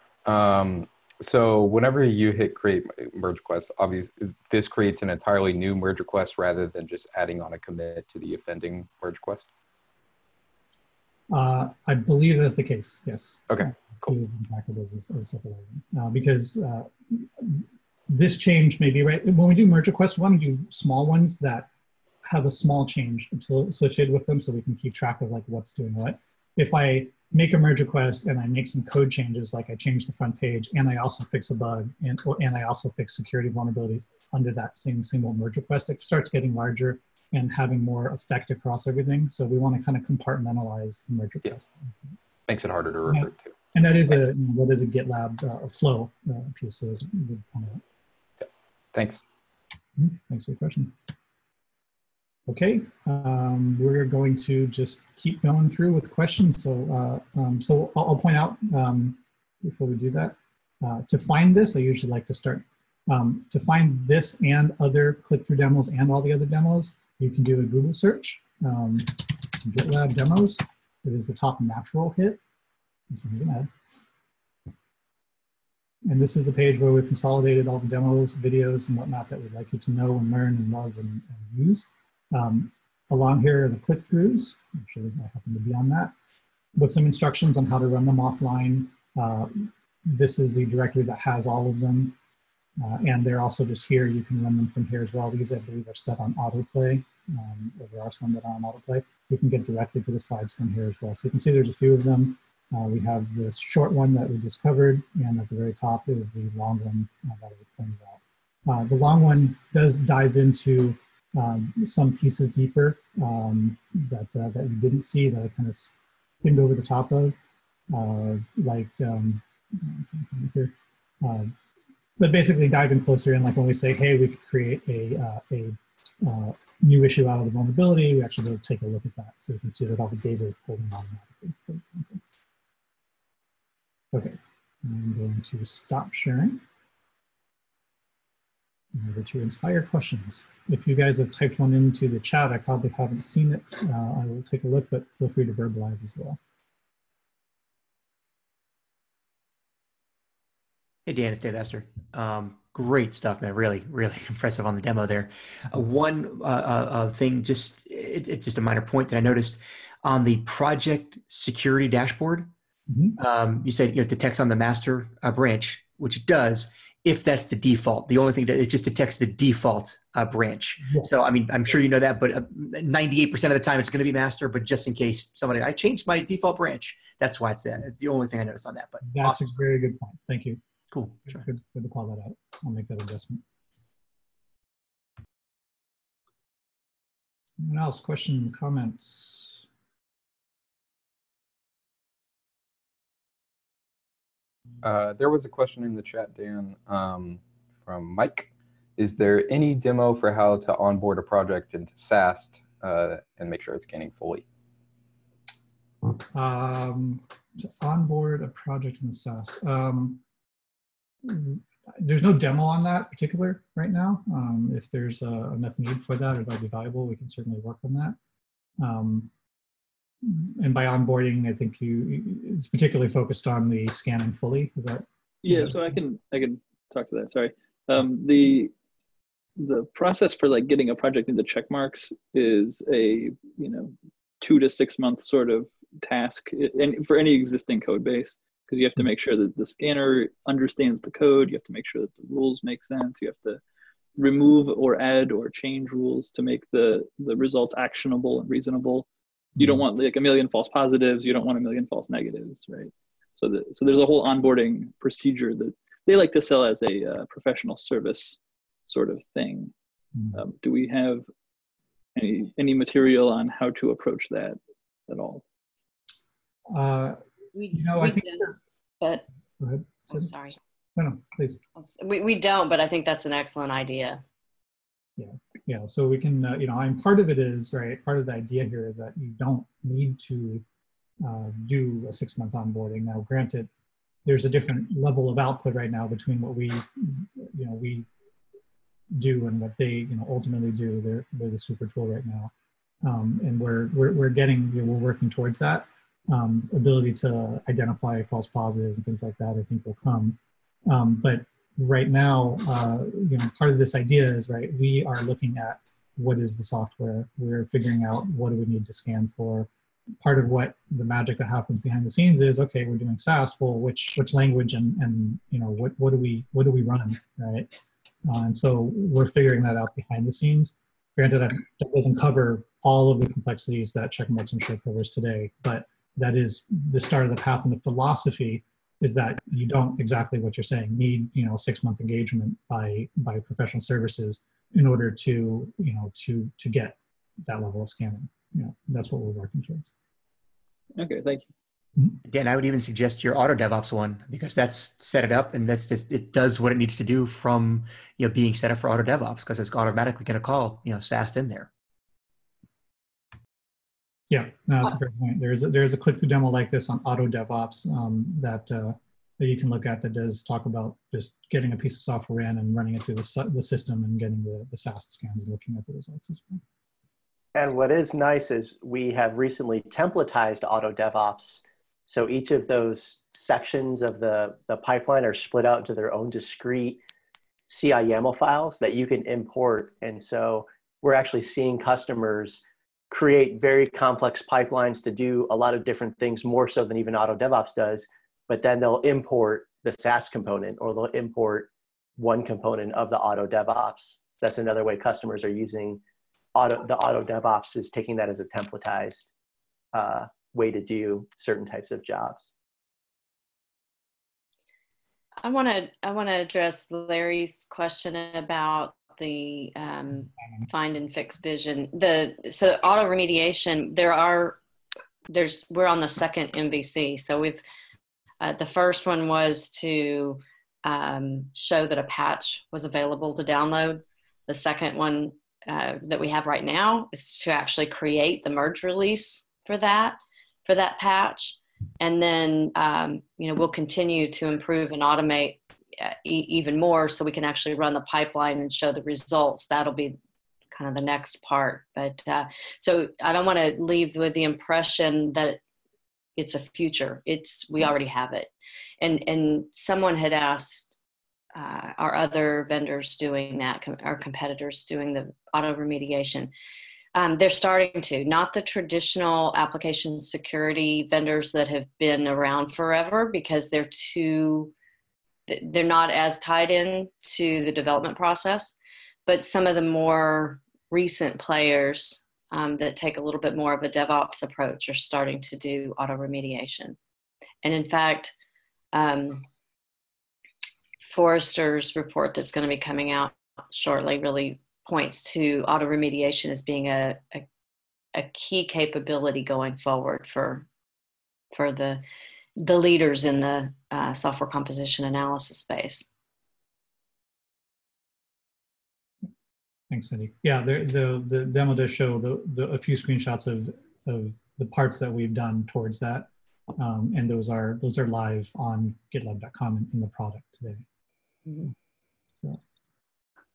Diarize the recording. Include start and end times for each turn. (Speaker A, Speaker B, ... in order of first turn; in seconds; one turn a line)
Speaker A: 0.2-9.5
Speaker B: 11.3-21.7
Speaker B: 22.3-41.9
Speaker A: 42.5-43.7
Speaker B: 43.1-47.8
Speaker A: 48.9-49.2
Speaker B: 50.0-50.9
Speaker B: 52.5-72.4
Speaker B: 73.1-73.7
Speaker B: 76.0-86.1
Speaker B: 86.8-92.2
Speaker B: 92.8-115.9
Speaker B: 116.4-117.4
Speaker B: 117.9-121.5
Speaker B: 122.2-132.2
Speaker B: 134.1-136.6
Speaker B: 138.9-146.4
Speaker C: 151.1-162.5
Speaker B: 162.9-163.2
Speaker C: 163.2-179.5
Speaker B: 179.0-180.6
Speaker C: 180.9-181.4
Speaker B: 181.3-183.4
Speaker B: 187.6-189.6
Speaker A: 194.8-204.5
Speaker B: 206.3-210.2
Speaker B: 211.2-218.2
Speaker B: 218.8-219.3
Speaker B: 220.2-226.0
Speaker D: 225.4-228.7
Speaker D: 229.6-243.6
Speaker D: 244.2-259.7
Speaker B: 249.6-249.8
Speaker B: 260.1-260.4
Speaker D: 260.3-261.3
Speaker D: 262.1-265.4
Speaker B: 266.7-267.2
Speaker E: 267.6-269.2
Speaker B: 267.7-268.5
Speaker B: 269.6-270.3
Speaker E: 270.1-270.6
Speaker B: 271.0-271.6
Speaker E: 271.8-274.2
Speaker B: 275.2-280.6
Speaker B: 281.2-283.7
Speaker B: 284.2-288.1
Speaker B: 289.1-292.5
Speaker B: 293.0-309.7
Speaker B: 310.2-317.7
Speaker B: 318.2-339.9
Speaker D: 341.0-341.5
Speaker C: 342.2-351.7
Speaker B: 354.3-366.6
Speaker F: 367.6-377.0
Speaker F: 377.7-382.6
Speaker F: 383.1-396.0
Speaker F: 396.6-399.3
Speaker F: 399.9-402.5
Speaker E: 405.4-414.6
Speaker E: 415.3-417.6
Speaker E: 418.4-440.2
Speaker E: 440.7-445.6
Speaker E: 446.4-450.9
Speaker E: 451.6-456.5
Speaker E: 457.1-464.7
Speaker E: 465.5-477.0
Speaker E: 477.6-478.4
Speaker E: 478.9-479.5
Speaker E: 481.0-487.5
Speaker E: 488.1-490.7
Speaker E: 491.5-492.0
Speaker E: 492.6-496.1
Speaker B: 499.9-510.8